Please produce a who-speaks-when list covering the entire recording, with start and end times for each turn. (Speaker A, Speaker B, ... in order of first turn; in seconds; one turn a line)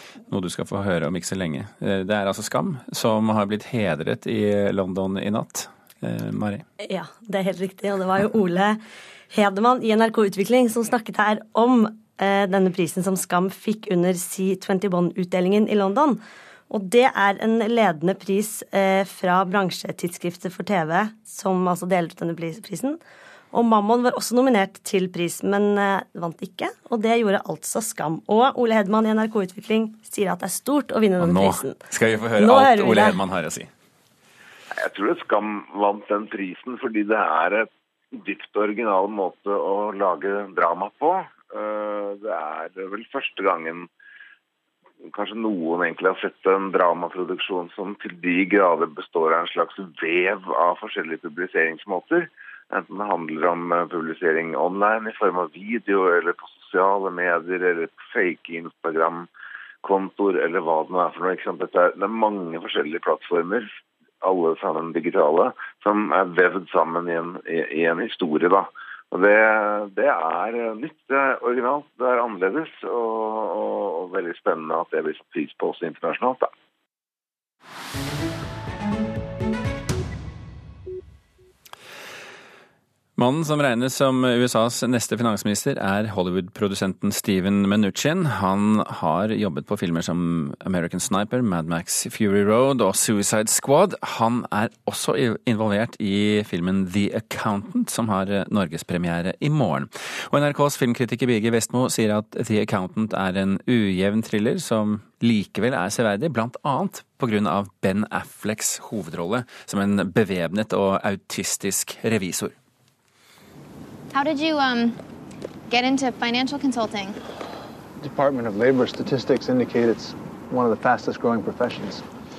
Speaker A: 0.3-6.6
Speaker B: 6.8-23.0
Speaker B: 23.5-31.8
Speaker A: 31.2-33.7
Speaker B: 32.4-33.2
Speaker C: 34.8-43.9
Speaker C: 45.0-59.3
Speaker C: 59.8-63.7
Speaker C: 64.2-76.5
Speaker A: 83.2-112.5
Speaker D: 114.1-115.0
Speaker D: 115.7-117.2
Speaker E: 118.0-122.0